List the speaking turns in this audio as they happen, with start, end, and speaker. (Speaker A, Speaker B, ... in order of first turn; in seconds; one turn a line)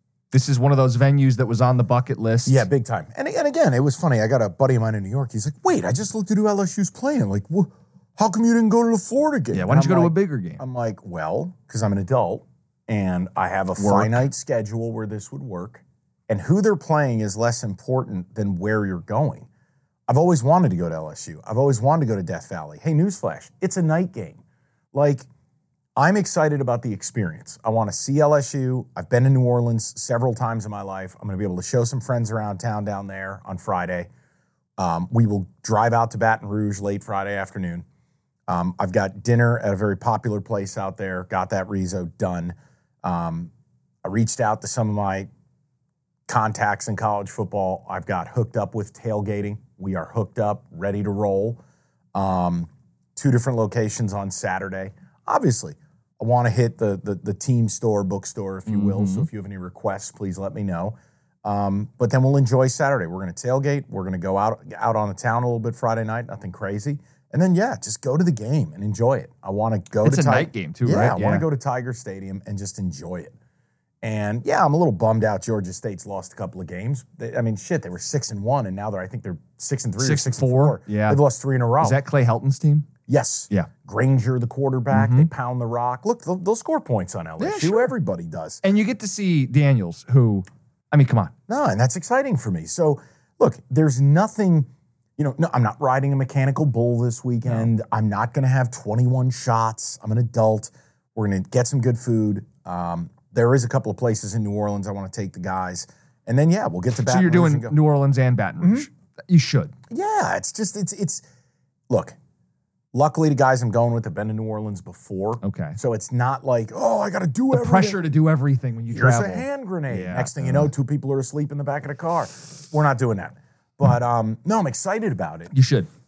Speaker A: 0.3-2.6
Speaker B: 2.5-19.5
Speaker A: 9.5-10.6
Speaker A: 13.8-14.2
Speaker B: 20.1-24.4
Speaker B: 24.9-25.3
Speaker B: 25.9-34.1
Speaker B: 34.8-37.8
Speaker B: 38.5-43.5
Speaker B: 44.0-45.3
Speaker B: 46.3-51.6
Speaker B: 52.1-73.3
Speaker A: 58.7-59.3
Speaker A: 70.0-71.4
Speaker B: 74.0-82.0
Speaker A: 80.0-81.2
Speaker A: 81.8-82.9
Speaker B: 83.1-88.6
Speaker A: 84.9-85.3
Speaker A: 87.4-87.9
Speaker A: 88.6-91.3
Speaker B: 91.5-107.8
Speaker A: 107.0-109.7
Speaker B: 108.6-108.9
Speaker B: 109.9-111.2
Speaker B: 111.9-112.2
Speaker B: 112.9-118.0
Speaker A: 115.4-115.8
Speaker A: 117.5-120.7
Speaker B: 118.9-125.5
Speaker A: 125.5-125.9